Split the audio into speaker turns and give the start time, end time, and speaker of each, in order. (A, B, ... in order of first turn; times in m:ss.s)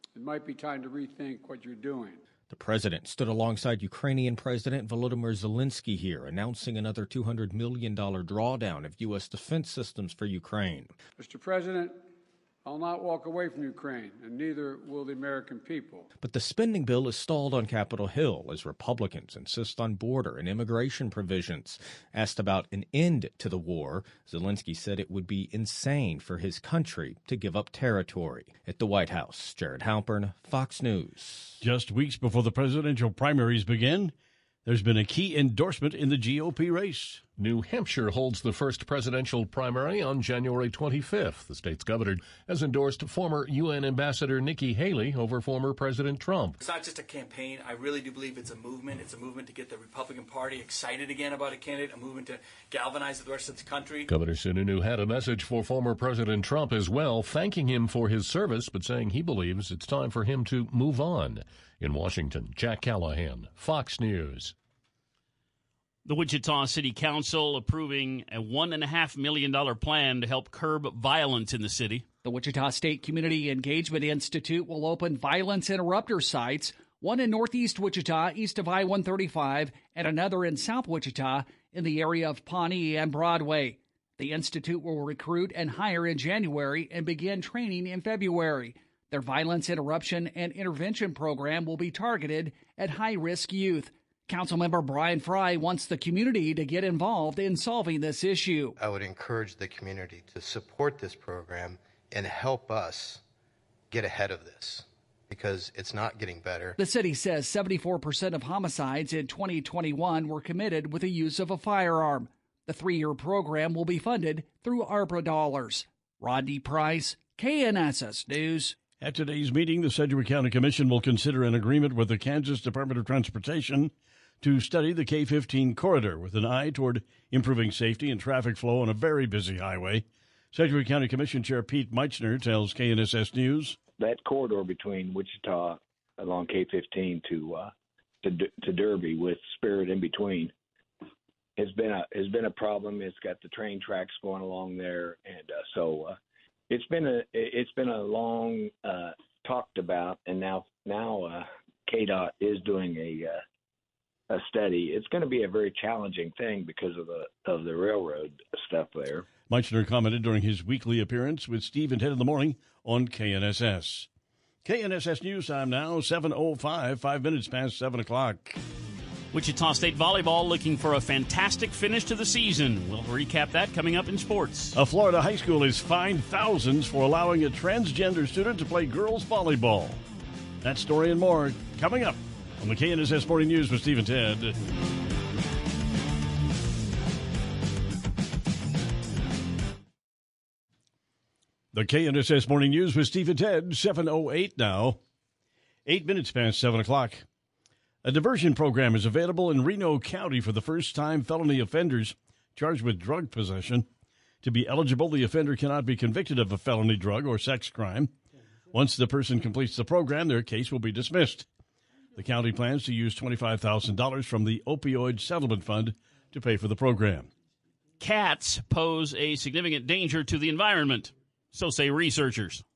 0:00.2-0:02.1 A
0:02.5-0:10.9 B
0:11.2-0:11.9 A
0:12.7-0:16.0 A
0:16.2-0:31.6 B
0:31.6-0:34.1 C
0:34.7-0:37.2 C
0:37.4-0:46.6 D
0:46.6-0:54.1 E
0:54.1-1:04.5 D
1:06.1-1:12.0 F
1:12.2-1:38.8 G
1:38.8-1:43.2 H
1:43.9-1:46.8 H
1:46.8-1:58.8 G
1:59.0-2:13.8 C
2:14.0-2:17.7 I
2:18.2-2:20.5 I
2:21.6-2:26.2 I
2:26.7-2:33.4 I
2:34.3-2:39.3 I
2:39.5-2:44.1 C
2:44.6-2:48.6 C
2:49.3-2:54.8 F
2:54.8-3:00.0 C
3:00.6-3:04.6 C
3:11.7-3:15.0 C
3:15.9-3:17.2 C
3:18.0-3:23.9 C
3:24.4-3:28.1 C
3:28.7-3:31.5 C
3:32.2-3:37.3 C
3:38.0-3:42.6 F